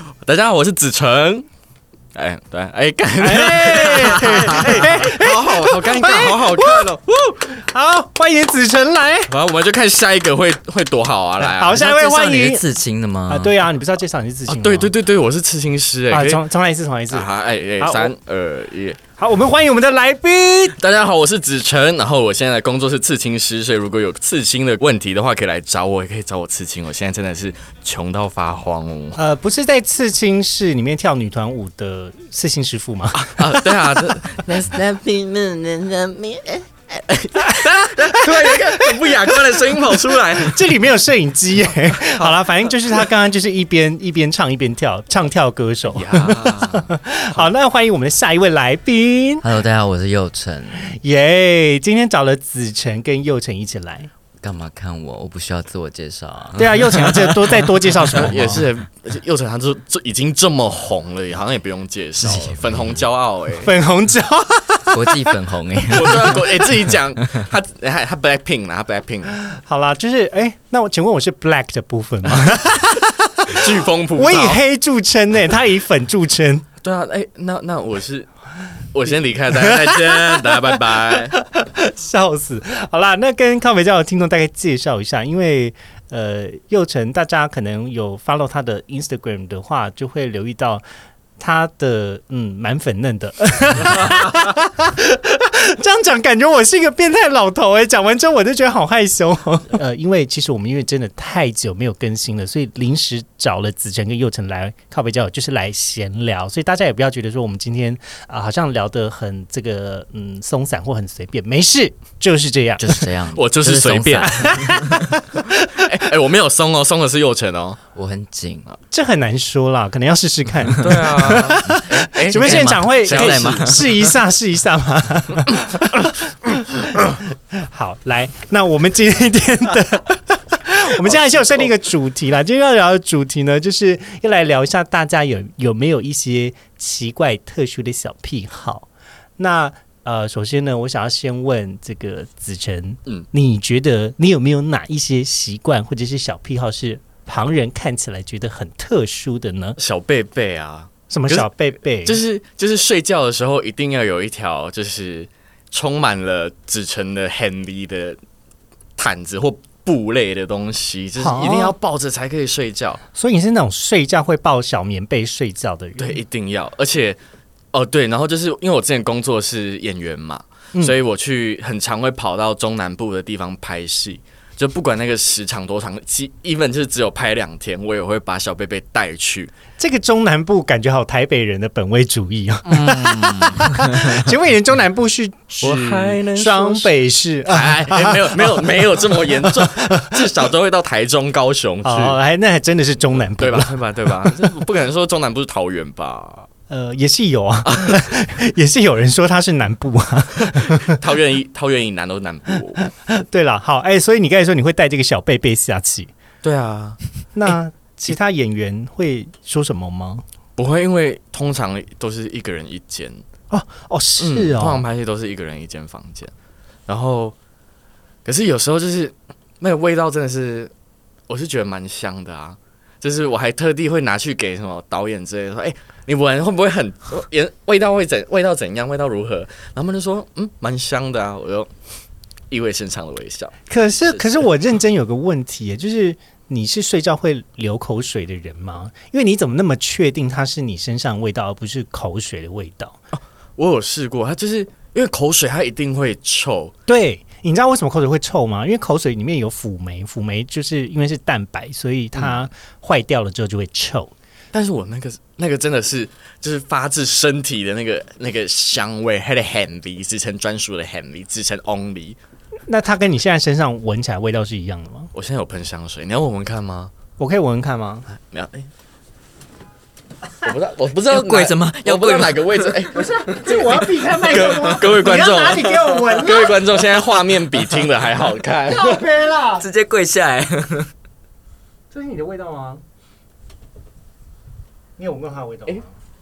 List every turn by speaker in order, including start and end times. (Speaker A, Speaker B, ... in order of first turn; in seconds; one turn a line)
Speaker A: 0.2-1.5
Speaker A: 2.1-7.5
Speaker B: 3.2-6.9
Speaker B: 7.5-9.3
Speaker A: 9.3-11.8
Speaker B: 11.4-12.6
Speaker C: 11.7-13.6
Speaker B: 13.3-14.9
Speaker A: 14.5-16.4
Speaker B: 16.1-17.3
Speaker A: 17.1-19.0
Speaker B: 17.8-18.1
Speaker B: 19.2-20.8
Speaker A: 20.7-29.2
Speaker B: 29.1-34.2
Speaker A: 33.1-34.8
Speaker C: 34.5-36.6
Speaker A: 37.0-40.7
Speaker B: 37.4-49.5
Speaker A: 41.9-42.4
Speaker A: 45.9-47.0
Speaker C: 49.4-50.9
Speaker B: 50.8-54.1
Speaker C: 54.4-58.6
Speaker B: 56.6-58.6
Speaker A: 58.1-63.7
Speaker C: 62.2-63.0
Speaker B: 63.6-65.4
Speaker C: 64.9-66.5
Speaker A: 65.9-69.3
Speaker B: 69.4-76.7
Speaker A: 73.5-74.6
Speaker A: 76.8-78.3
Speaker A: 78.9-81.4
Speaker B: 79.5-90.8
Speaker B: 91.4-113.1
Speaker C: 112.8-114.9
Speaker A: 113.3-114.6
Speaker B: 114.4-115.9
Speaker A: 115.8-117.8
Speaker C: 117.9-118.8
Speaker B: 118.9-138.9
Speaker A: 120.8-124.1
Speaker C: 122.3-123.9
Speaker A: 131.0-131.7
Speaker B: 139.4-149.8
Speaker A: 149.8-151.5
Speaker B: 151.1-152.2
Speaker A: 152.0-158.2
Speaker A: 159.0-163.0
Speaker B: 161.2-161.8
Speaker B: 163.1-166.2
Speaker A: 166.0-167.2
Speaker A: 167.7-179.5
Speaker B: 179.8-190.2
Speaker C: 182.7-184.2
Speaker A: 185.6-186.9
Speaker A: 187.4-192.2
Speaker B: 191.8-194.6
Speaker A: 193.4-196.5
Speaker B: 196.7-201.0
Speaker A: 197.6-198.0
Speaker A: 200.5-202.8
Speaker B: 202.8-206.1
Speaker A: 206.4-207.6
Speaker B: 207.3-210.2
Speaker A: 210.6-213.2
Speaker B: 213.5-214.8
Speaker A: 214.2-216.3
Speaker A: 216.9-217.3
Speaker A: 218.2-220.7
Speaker A: 221.3-231.7
Speaker A: 232.5-234.5
Speaker B: 233.7-243.0
Speaker A: 243.1-246.7
Speaker B: 246.9-254.1
Speaker A: 254.5-262.2
Speaker B: 262.7-265.1
Speaker A: 265.1-266.9
Speaker B: 267.2-268.1
Speaker A: 268.1-268.7
Speaker A: 270.4-279.0
Speaker C: 271.1-272.9
Speaker B: 272.9-276.6
Speaker C: 274.3-274.9
Speaker B: 278.7-279.6
Speaker C: 279.6-280.9
Speaker B: 281.9-282.8
Speaker B: 285.0-285.9